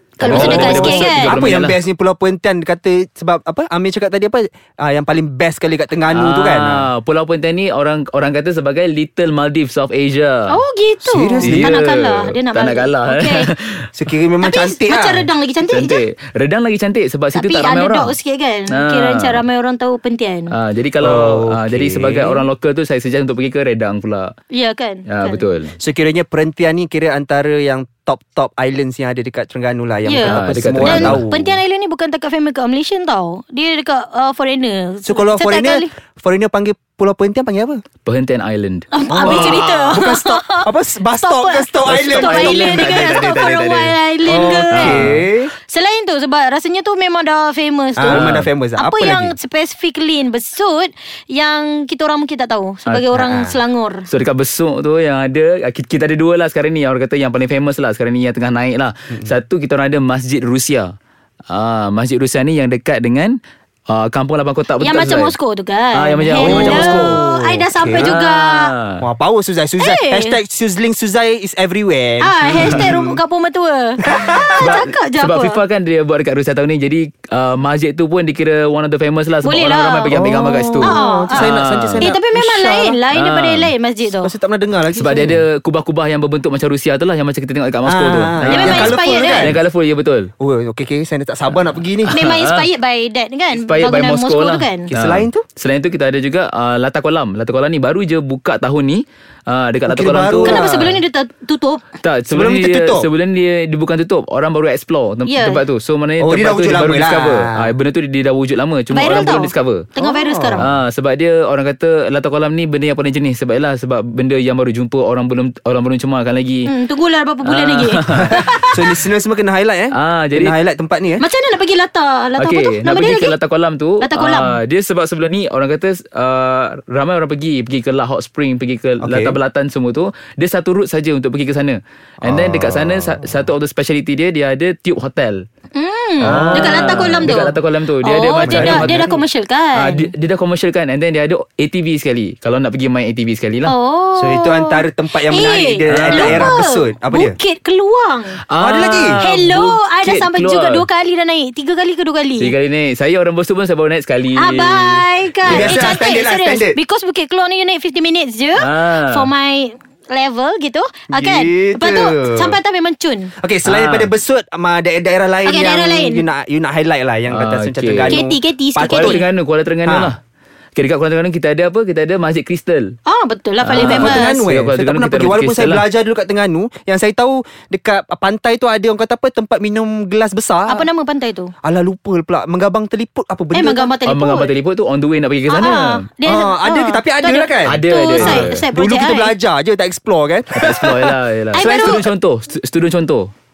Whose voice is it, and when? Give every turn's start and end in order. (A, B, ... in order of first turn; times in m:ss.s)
0:00.2-0:01.4 A
0:00.2-0:01.8 B
0:00.2-0:06.9 C
0:06.1-0:10.4 B
0:10.5-0:13.5 A
0:11.0-0:11.7 C
0:11.4-0:13.8 B
0:13.9-0:15.2 C
0:14.4-0:16.0 A
0:15.6-0:18.1 B
0:17.3-0:20.5 A
0:18.7-0:19.4 B
0:20.5-0:24.3 B
0:21.0-0:22.4 C
0:24.5-0:25.4 A
0:25.1-0:25.7 B
0:25.8-0:31.4 C
0:30.0-0:35.9 A
0:30.2-0:31.2 B
0:35.0-0:37.8 C
0:38.0-0:39.6 B
0:38.9-0:40.6 A
0:39.1-0:43.4 C
0:41.2-0:45.0 A
0:41.8-0:43.9 B
0:44.2-0:45.5 C
0:44.7-0:45.2 B
0:45.7-0:54.0 A
0:48.0-0:49.3 C
0:48.0-0:48.5 B
0:53.1-0:53.6 C
0:54.1-1:00.9 B
1:01.5-1:03.3 B
1:03.9-1:05.3 B
1:04.8-1:08.7 A
1:05.9-1:07.2 B
1:06.4-1:08.1 C
1:07.9-1:09.0 B
1:09.0-1:13.2 C
1:09.8-1:10.4 A
1:12.2-1:14.0 A
1:12.5-1:12.8 B
1:14.0-1:14.7 C
1:14.4-1:22.1 B
1:14.6-1:15.6 A
1:19.4-1:24.3 A
1:20.1-1:23.0 C
1:23.1-1:23.7 B
1:24.2-1:25.4 C
1:24.9-1:30.3 B
1:27.8-1:29.6 C
1:28.4-1:29.5 A
1:30.4-1:32.1 C
1:32.0-1:32.6 B
1:32.1-1:34.9 A
1:33.5-1:41.0 B
1:34.9-1:35.4 C
1:39.9-1:40.9 C
1:40.4-1:41.8 A
1:42.0-1:49.8 B
1:42.3-1:43.1 C
1:45.2-1:45.6 A
1:46.2-1:47.7 C
1:48.9-1:50.7 A
1:50.0-1:50.6 C
1:50.6-1:56.7 B
1:56.7-1:58.6 A
1:57.4-1:58.7 B
1:58.1-2:01.2 C
2:00.0-2:00.5 B
2:01.2-2:03.3 A
2:02.4-2:15.4 B
2:04.0-2:04.6 A
2:09.0-2:09.4 C
2:12.2-2:13.1 C
2:15.7-2:20.1 A
2:16.2-2:19.1 B
2:16.2-2:17.3 C
2:18.4-2:19.1 C
2:19.8-2:23.7 B
2:23.6-2:28.4 A
2:24.2-2:27.4 C
2:25.9-2:26.5 B
2:28.5-2:30.8 B
2:28.6-2:29.2 C
2:29.2-2:32.5 A
2:32.4-2:36.0 B
2:34.4-2:43.3 A
2:35.4-2:36.8 C
2:38.6-2:39.2 B
2:41.1-2:42.6 C
2:43.4-2:49.2 C
2:43.6-2:44.1 B
2:45.4-2:46.2 A
2:47.3-2:48.2 B
2:48.1-2:49.2 A
2:48.8-2:50.2 B
2:49.8-2:50.1 C
2:50.8-2:52.9 B
2:53.1-2:54.4 A
2:53.6-2:55.8 B
2:53.7-3:00.8 C
3:00.7-3:01.5 A
3:01.6-3:03.9 C
3:03.5-3:04.5 A
3:04.0-3:06.0 B
3:05.5-3:09.4 A
3:06.2-3:11.1 C
3:07.6-3:08.6 B
3:10.6-3:13.3 B
3:11.5-3:12.1 A